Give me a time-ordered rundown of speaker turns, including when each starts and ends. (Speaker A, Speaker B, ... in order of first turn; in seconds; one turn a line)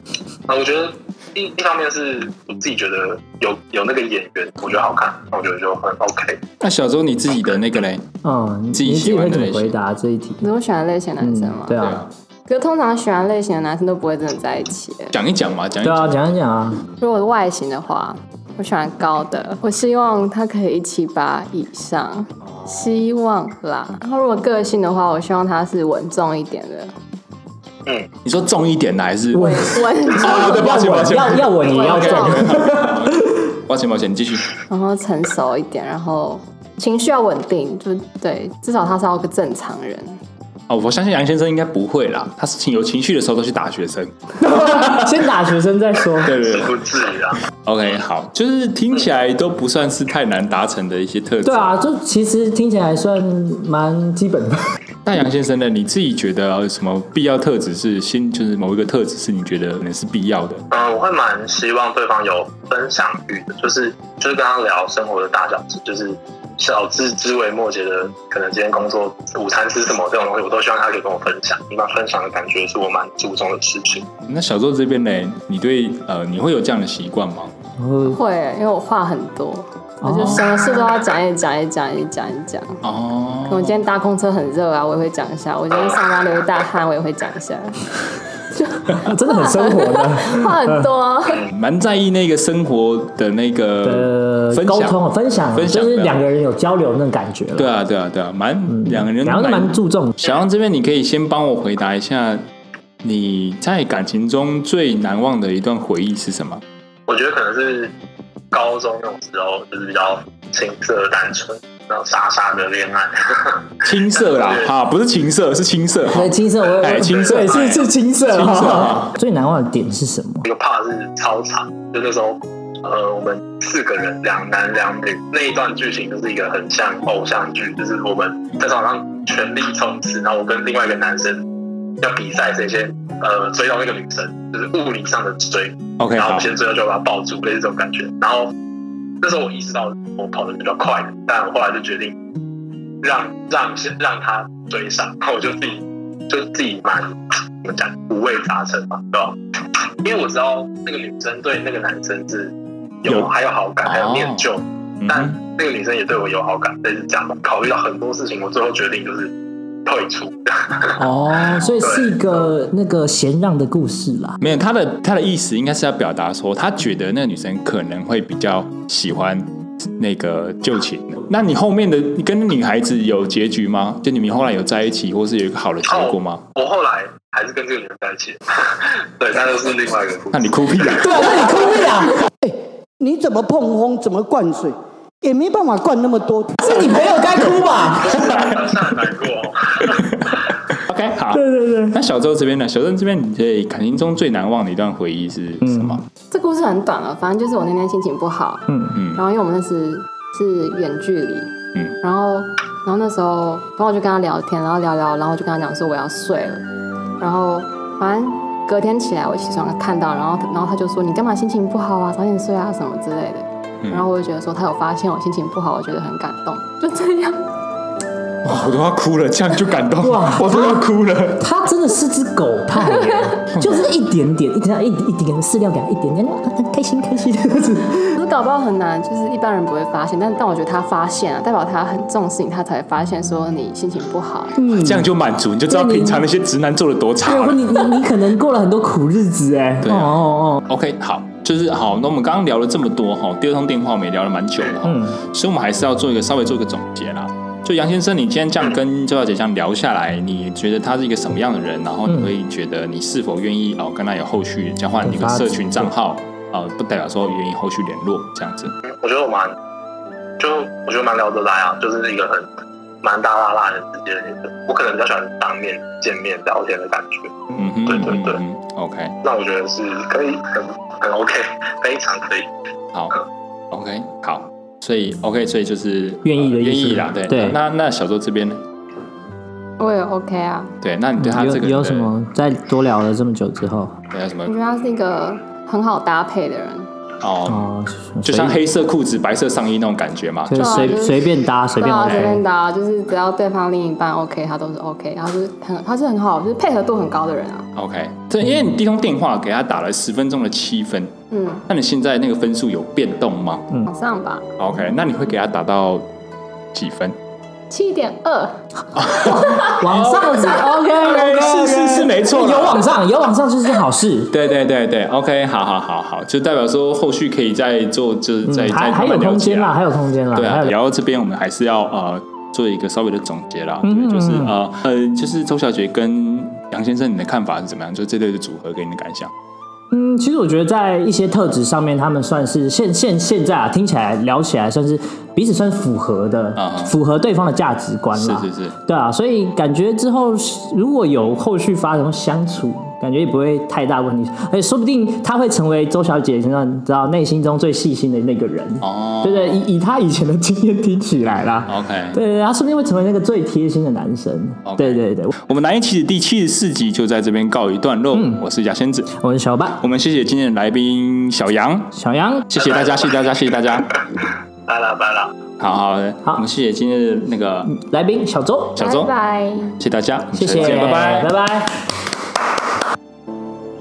Speaker A: 0.5-6.4
Speaker B: 6.6-8.0
Speaker C: 8.2-10.5
Speaker B: 8.7-9.7
Speaker D: 10.4-11.9
Speaker C: 11.2-12.0
Speaker B: 11.8-12.1
Speaker D: 12.5-15.2
Speaker B: 15.1-16.2
Speaker C: 15.8-16.8
Speaker D: 17.0-26.9
Speaker B: 28.2-34.5
Speaker D: 29.4-32.8
Speaker C: 29.4-33.2
Speaker D: 34.7-40.2
Speaker B: 40.7-45.1
Speaker C: 44.4-46.4
Speaker B: 46.2-46.7
Speaker A: 46.4-47.4
Speaker B: 47.6-51.8
Speaker C: 51.5-54.6
Speaker B: 55.1-60.6
Speaker A: 60.7-74.1
Speaker B: 74.3-77.5
Speaker C: 77.8-78.2
Speaker D: 78.0-82.8
Speaker C: 80.0-80.7
Speaker B: 82.8-83.8
Speaker D: 83.5-91.5
Speaker A: 85.9-86.3
Speaker C: 88.9-90.9
Speaker B: 91.5-95.0
Speaker C: 93.8-97.7
Speaker B: 95.5-96.2
Speaker B: 97.6-102.5
Speaker C: 98.7-100.1
Speaker B: 103.0-106.6
Speaker A: 107.1-107.9
Speaker A: 108.5-114.7
Speaker B: 113.8-119.2
Speaker C: 116.1-120.5
Speaker A: 117.0-117.5
Speaker A: 120.4-131.4
Speaker A: 132.0-138.5
Speaker B: 136.0-136.5
Speaker A: 139.2-142.2
Speaker A: 143.0-149.4
Speaker A: 150.0-159.3
Speaker B: 153.8-154.5
Speaker B: 155.0-155.4
Speaker A: 159.8-161.0
Speaker C: 161.0-164.4
Speaker A: 161.8-162.2
Speaker B: 164.4-176.4
Speaker A: 175.9-181.6
Speaker B: 180.3-181.5
Speaker C: 180.9-182.2
Speaker E: 182.4-186.5
Speaker C: 186.6-188.2
Speaker A: 188.0-190.4
Speaker B: 188.2-188.5
Speaker B: 190.1-196.0
Speaker C: 191.3-192.0
Speaker C: 195.6-196.0
Speaker D: 196.3-206.6
Speaker C: 198.7-198.9
Speaker B: 198.9-199.2
Speaker D: 207.2-217.4
Speaker B: 218.4-221.4
Speaker C: 220.0-220.8
Speaker C: 221.4-228.2
Speaker B: 223.6-223.8
Speaker D: 228.1-234.6
Speaker C: 234.6-235.1
Speaker B: 234.8-238.0
Speaker C: 235.7-236.3
Speaker C: 237.2-240.6
Speaker B: 239.8-258.7
Speaker C: 244.8-245.2
Speaker C: 255.0-255.9
Speaker A: 258.8-259.6
Speaker A: 260.4-262.5
Speaker A: 263.0-268.4
Speaker B: 267.6-269.1
Speaker A: 269.2-272.5
Speaker B: 273.7-278.6
Speaker C: 276.2-277.6
Speaker D: 279.8-280.7
Speaker B: 280.8-282.1
Speaker C: 281.2-284.0
Speaker B: 284.1-284.5
Speaker D: 284.5-286.9
Speaker B: 287.2-287.7
Speaker C: 287.5-288.6
Speaker B: 288.2-291.0
Speaker C: 290.5-292.4
Speaker D: 290.6-297.7
Speaker B: 297.8-301.1
Speaker D: 301.3-301.6
Speaker B: 301.7-303.7
Speaker D: 303.9-304.4
Speaker B: 304.6-306.1
Speaker B: 306.7-307.1
Speaker D: 307.7-308.6
Speaker B: 309.0-312.9
Speaker C: 309.2-314.3
Speaker D: 309.2-309.7
Speaker B: 314.3-319.8
Speaker C: 318.5-320.8
Speaker B: 320.3-329.3
Speaker C: 323.8-324.5
Speaker C: 329.9-355.3
Speaker B: 336.6-336.9
Speaker B: 338.1-338.8
Speaker B: 348.8-349.6
Speaker B: 351.7-352.2
Speaker B: 354.6-359.1
Speaker C: 358.1-358.4
Speaker C: 359.1-359.8
Speaker B: 359.8-361.9
Speaker C: 361.9-362.5
Speaker B: 362.5-363.9
Speaker A: 362.6-363.2
Speaker A: 364.7-365.3
Speaker B: 365.6-367.7
Speaker C: 367.6-368.8
Speaker B: 368.8-369.1
Speaker D: 368.8-369.8
Speaker B: 369.8-371.3
Speaker C: 370.4-371.8